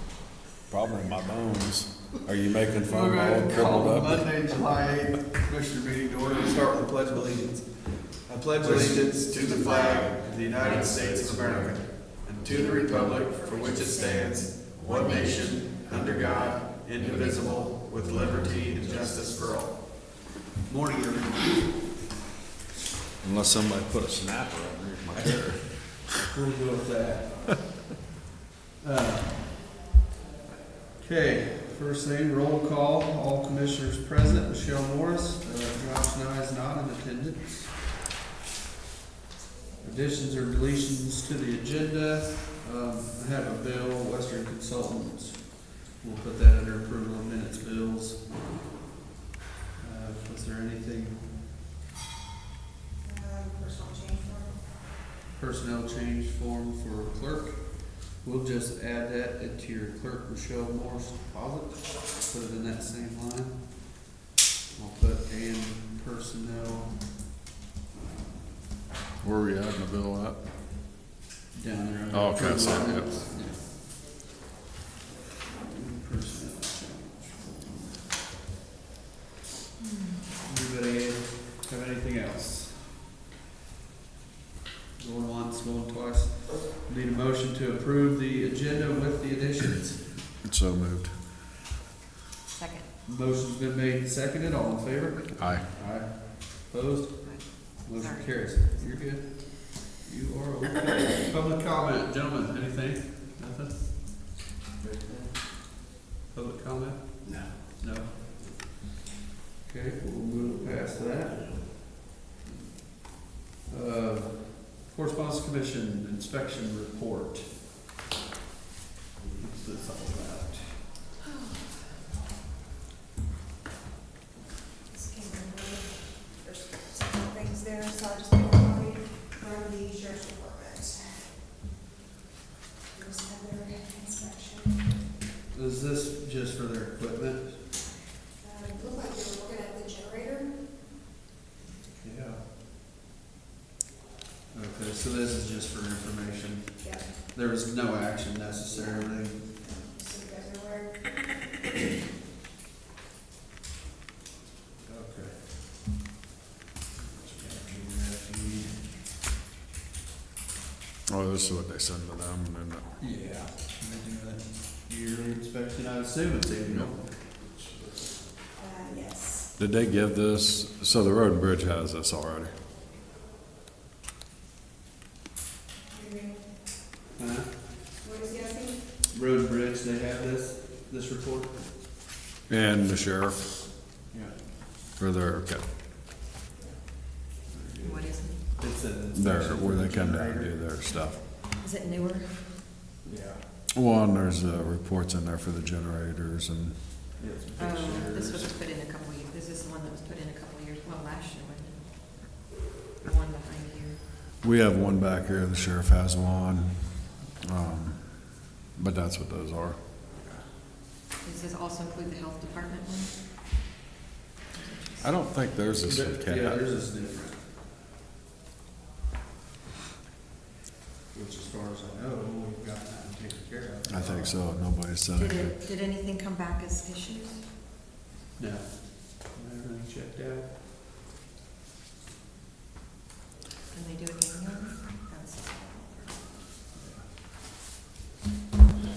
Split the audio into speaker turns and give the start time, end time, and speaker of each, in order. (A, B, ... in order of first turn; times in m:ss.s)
0:00.7-0:04.2 A
0:02.8-0:22.0 B
0:08.6-0:09.0 A
0:09.2-0:11.0 C
0:10.9-0:11.7 A
0:12.4-0:15.6 C
0:14.7-0:19.3 A
0:23.2-0:26.1 A
0:25.1-0:27.6 B
0:28.8-0:29.7 B
0:31.0-0:37.9 B
0:39.8-0:48.5 B
0:49.8-0:51.3 B
0:53.0-0:54.6 D
0:55.3-1:04.1 B
1:04.7-1:07.2 B
1:09.2-1:10.4 A
1:11.5-1:13.7 B
1:12.1-1:13.2 A
1:15.6-1:18.1 B
1:19.8-1:20.2 C
1:20.4-1:23.0 B
1:25.0-1:30.2 B
1:30.4-1:31.2 A
1:32.5-1:32.9 C
1:33.0-1:44.1 B
1:35.4-1:35.7 A
1:37.2-1:39.0 C
1:46.3-1:48.8 B
1:49.6-1:52.0 B
1:53.7-1:57.6 B
1:59.3-2:00.9 B
2:04.9-2:11.2 D
2:12.9-2:14.7 D
2:15.5-2:17.8 B
2:18.4-2:20.5 D
2:21.9-2:22.5 B
2:24.5-2:29.5 B
2:26.8-2:27.1 D
2:29.6-2:31.1 D
2:34.8-2:35.8 B
2:36.9-2:38.9 B
2:41.1-2:43.0 A
2:43.0-2:48.1 B
2:46.6-2:46.9 A
2:48.6-2:49.4 D
2:49.6-2:52.6 A
2:55.9-2:56.4 D
2:57.2-2:57.6 B
2:58.0-2:58.8 D
2:59.1-3:01.7 B
3:02.5-3:03.4 A
3:04.1-3:04.4 B
3:05.0-3:05.7 A
3:06.6-3:10.5 B
3:07.8-3:08.4 C
3:09.1-3:11.2 A
3:11.6-3:12.6 C
3:13.0-3:13.4 B
3:13.7-3:16.8 A
3:17.2-3:18.6 B
3:17.6-3:24.0 C
3:24.4-3:29.8 A
3:31.2-3:33.2 C
3:34.5-3:35.1 C
3:35.0-3:36.6 A
3:35.8-3:37.5 B
3:41.1-3:44.4 B
3:43.9-3:45.6 A
3:45.1-3:47.4 C
3:48.4-3:50.6 B
3:53.7-3:56.4 C
3:56.7-3:57.1 B